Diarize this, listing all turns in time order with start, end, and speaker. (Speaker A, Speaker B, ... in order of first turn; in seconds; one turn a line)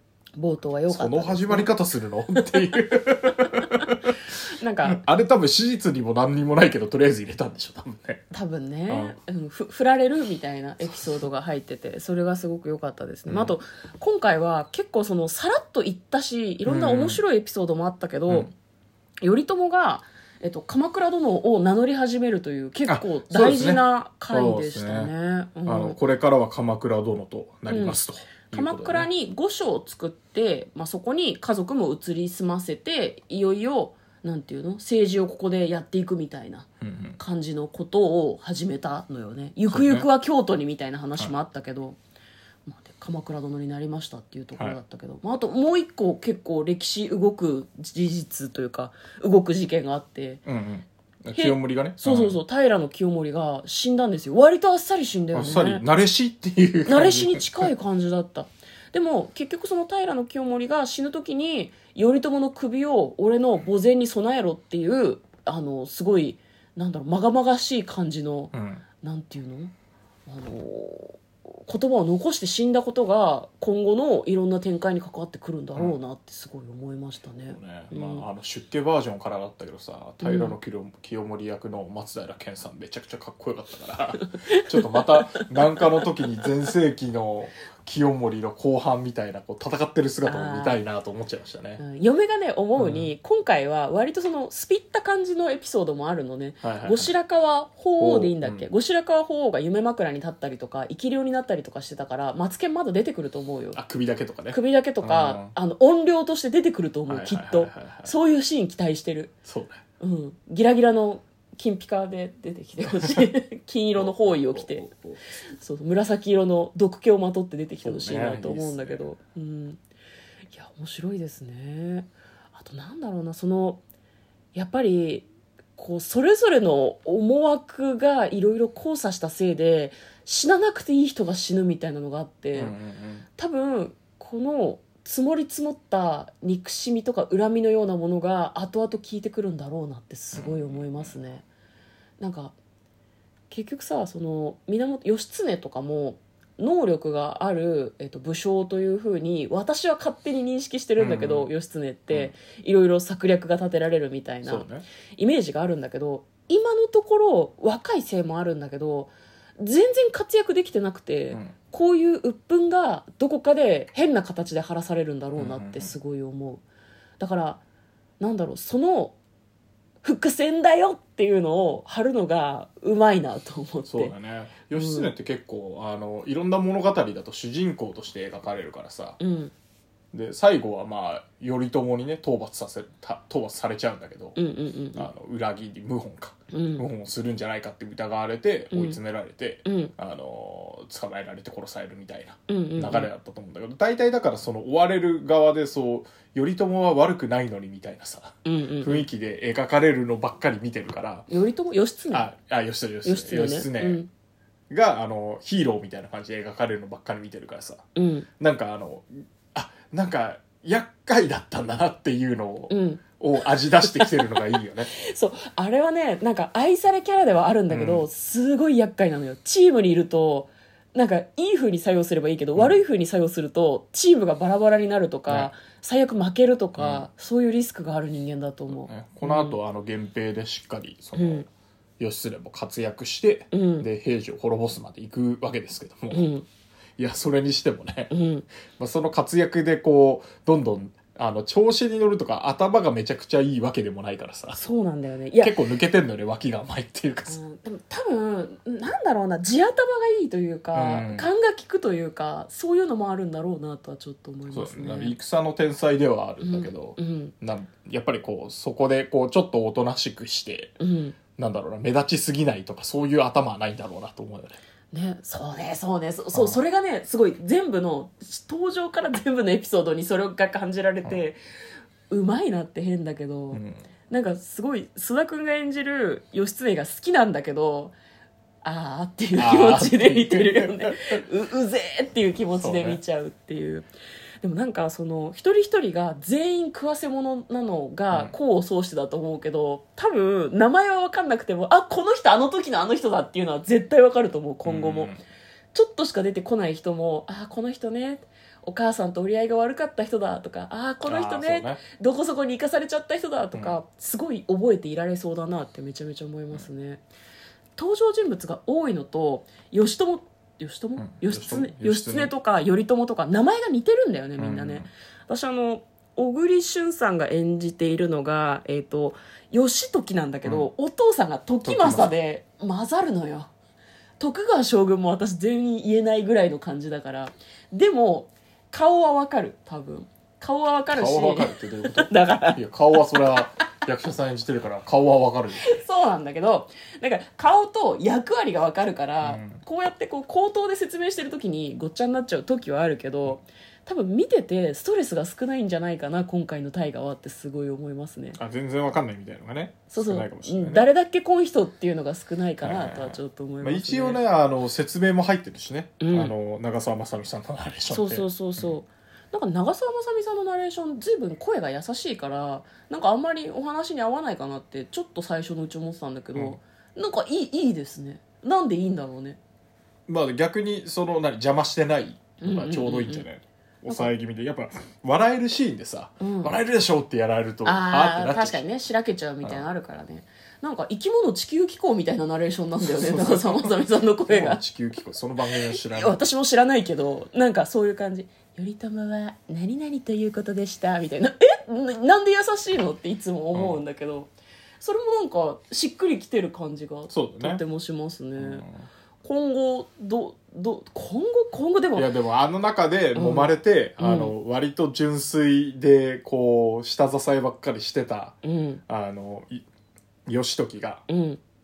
Speaker A: 0.4-1.7
Speaker B: 0.9-4.1
Speaker A: 4.5-5.0
Speaker B: 4.8-8.3
Speaker A: 8.3-18.5
Speaker B: 8.9-9.2
Speaker B: 13.3-13.6
Speaker B: 16.6-17.2
Speaker A: 19.2-26.0
Speaker B: 22.9-25.1
Speaker B: 25.7-29.1
Speaker A: 27.7-36.7
Speaker B: 36.8-37.2
Speaker A: 37.2-42.0
Speaker B: 39.7-40.1
Speaker A: 42.7-50.4
Speaker B: 50.5-52.4
Speaker A: 51.3-55.8
Speaker B: 55.3-57.7
Speaker A: 56.9-69.7
Speaker B: 68.5-68.8
Speaker A: 70.3-78.2
Speaker B: 77.5-91.8
Speaker A: 80.2-80.6
Speaker A: 84.4-85.9
Speaker A: 90.2-90.8
Speaker A: 91.8-103.8
Speaker B: 92.8-93.1
Speaker B: 96.6-97.1
Speaker B: 98.0-98.7
Speaker B: 103.7-105.5
Speaker A: 104.5-109.3
Speaker B: 107.1-108.1
Speaker B: 109.5-109.8
Speaker A: 110.0-114.9
Speaker B: 112.8-113.2
Speaker B: 114.0-115.2
Speaker A: 115.5-119.8
Speaker B: 117.8-119.0
Speaker A: 120.5-123.8
Speaker A: 124.5-132.8
Speaker B: 132.5-133.3
Speaker A: 133.4-141.4
Speaker B: 140.3-141.2
Speaker A: 142.2-142.6
Speaker A: 143.5-166.6
Speaker B: 151.0-151.5
Speaker B: 154.4-154.9
Speaker B: 165.4-165.9
Speaker A: 167.2-167.6
Speaker A: 168.2-169.2
Speaker A: 170.0-174.1
Speaker B: 173.9-179.2
Speaker A: 174.7-175.1
Speaker A: 179.2-179.5
Speaker B: 180.1-184.4
Speaker A: 184.4-185.1
Speaker B: 184.9-201.3
Speaker A: 186.5-186.9
Speaker A: 188.7-189.0
Speaker A: 189.7-189.9
Speaker A: 192.5-193.1
Speaker A: 198.4-199.1
Speaker A: 201.3-202.3
Speaker B: 202.1-204.0
Speaker A: 203.1-204.1
Speaker B: 204.7-207.9
Speaker A: 208.0-208.3
Speaker B: 208.4-214.9
Speaker A: 212.7-213.0
Speaker A: 213.8-229.6
Speaker B: 217.7-218.1
Speaker B: 226.8-227.1
Speaker B: 228.8-231.5
Speaker A: 231.2-231.4
Speaker B: 232.0-236.3
Speaker A: 233.5-233.9
Speaker A: 236.1-236.5
Speaker B: 237.0-238.1
Speaker A: 238.1-238.5
Speaker B: 238.7-244.6
Speaker A: 244.6-245.6
Speaker B: 245.4-247.4
Speaker A: 247.3-255.2
Speaker B: 250.7-251.3
Speaker B: 254.5-260.8
Speaker A: 256.4-257.3
Speaker A: 260.8-261.2
Speaker B: 261.4-264.6
Speaker A: 264.9-271.4
Speaker B: 266.3-266.6
Speaker A: 272.1-277.9
Speaker B: 273.5-273.8
Speaker A: 278.6-283.9
Speaker B: 279.4-281.2
Speaker B: 282.6-283.0
Speaker A: 284.4-295.2
Speaker B: 294.6-295.2
Speaker A: 295.7-307.0
Speaker B: 301.1-301.8
Speaker A: 307.8-323.5
Speaker B: 311.0-312.3
Speaker B: 314.4-314.9
Speaker B: 321.6-322.1
Speaker A: 324.2-333.5
Speaker B: 330.9-335.8
Speaker A: 335.6-348.4
Speaker B: 339.2-339.6
Speaker B: 348.4-350.9
Speaker A: 349.9-354.2
Speaker B: 352.6-358.7
Speaker A: 356.0-356.3
Speaker A: 357.9-369.4
Speaker B: 370.1-378.6
Speaker A: 372.4-373.3
Speaker A: 376.2-376.5
Speaker A: 377.6-384.6
Speaker B: 382.8-386.2
Speaker A: 385.5-398.7
Speaker B: 393.5-393.8
Speaker B: 397.1-397.6
Speaker B: 398.4-398.9
Speaker A: 399.2-402.1
Speaker B: 402.0-408.4
Speaker A: 403.1-404.3
Speaker A: 408.4-408.8
Speaker B: 408.9-409.6
Speaker B: 410.3-411.0
Speaker A: 411.1-411.4